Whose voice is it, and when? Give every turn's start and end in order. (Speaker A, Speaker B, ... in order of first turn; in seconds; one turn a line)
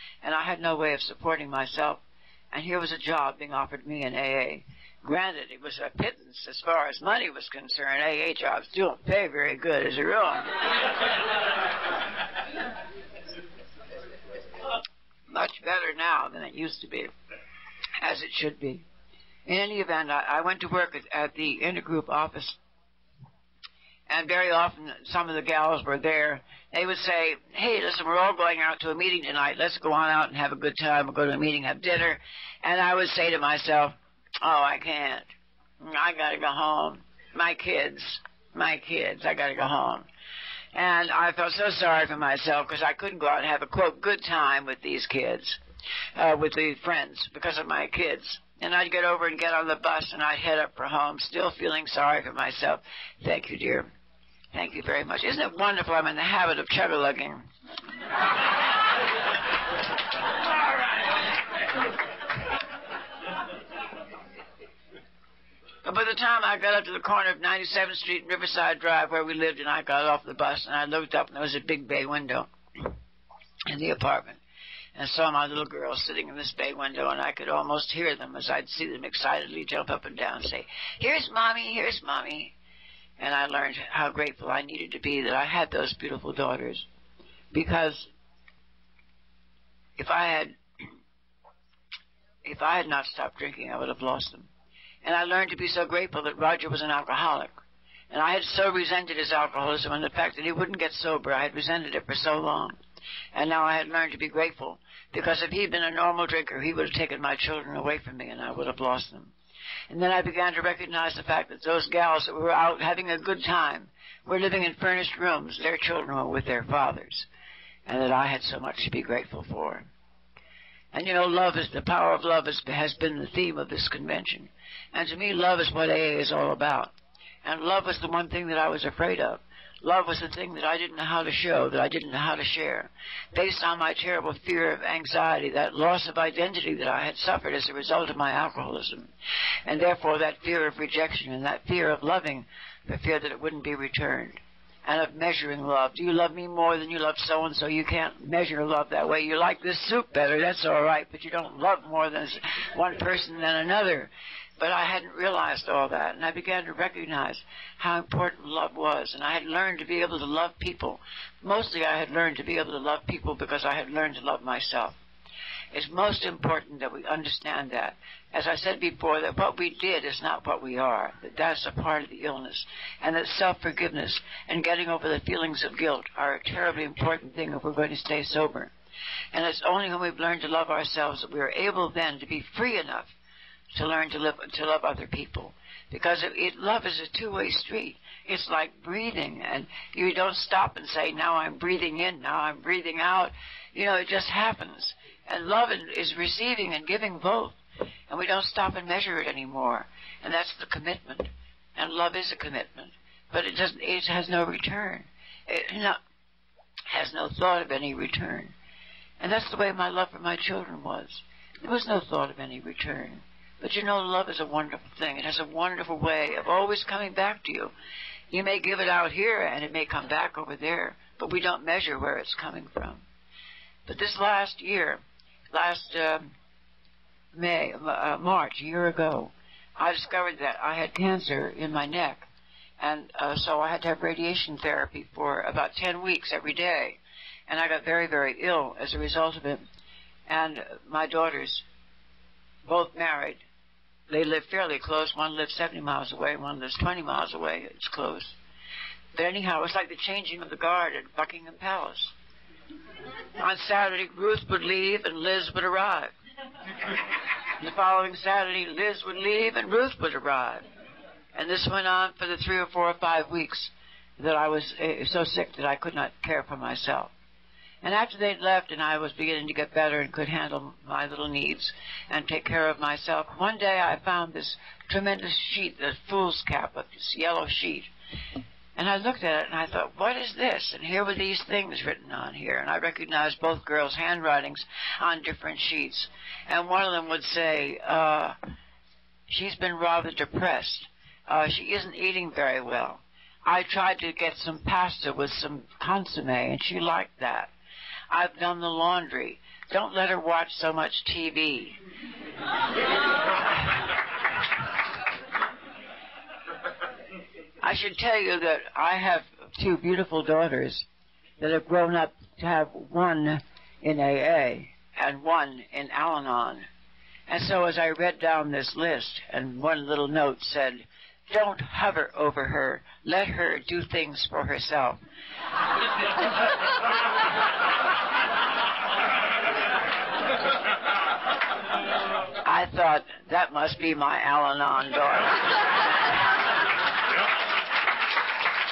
Speaker A: 0.2-10.6
Speaker A: 15.3-17.1
Speaker A: 18.0-18.8
Speaker A: 19.5-22.6
Speaker A: 24.1-35.3
Speaker A: 35.8-40.1
Speaker A: 40.7-45.6
Speaker A: 46.2-53.9
Speaker A: 54.5-57.5
Speaker A: 65.8-72.9
Speaker A: 73.7-74.4
Speaker A: 75.0-82.5
Speaker A: 83.2-86.9
Speaker A: 87.5-88.1
Speaker A: 90.0-90.6
Speaker A: 92.4-94.5
Speaker A: 95.0-97.5
Speaker A: 98.1-102.8
Speaker A: 103.3-109.3
Speaker A: 109.9-117.3
Speaker A: 117.9-119.9
Speaker A: 120.9-139.1
Speaker A: 139.7-165.0
Speaker A: 165.7-178.7
Speaker A: 179.3-183.1
Speaker A: 183.7-197.6
Speaker A: 198.1-206.0
Speaker A: 206.9-208.5
Speaker A: 209.2-217.7
Speaker A: 218.3-223.0
Speaker A: 223.9-225.0
Speaker A: 225.5-226.3
Speaker A: 227.3-232.3
Speaker A: 232.8-239.6
Speaker A: 240.3-241.6
Speaker A: 242.7-243.4
Speaker A: 244.1-248.3
Speaker A: 249.2-252.1
Speaker A: 253.4-256.1
Speaker A: 257.6-260.6
Speaker A: 261.4-267.1
Speaker A: 267.8-277.9
Speaker A: 278.8-288.4
Speaker A: 289.3-297.5
Speaker A: 298.1-301.8
Speaker A: 307.6-310.9
Speaker A: 311.4-316.7
Speaker A: 317.3-325.0
Speaker A: 332.4-335.6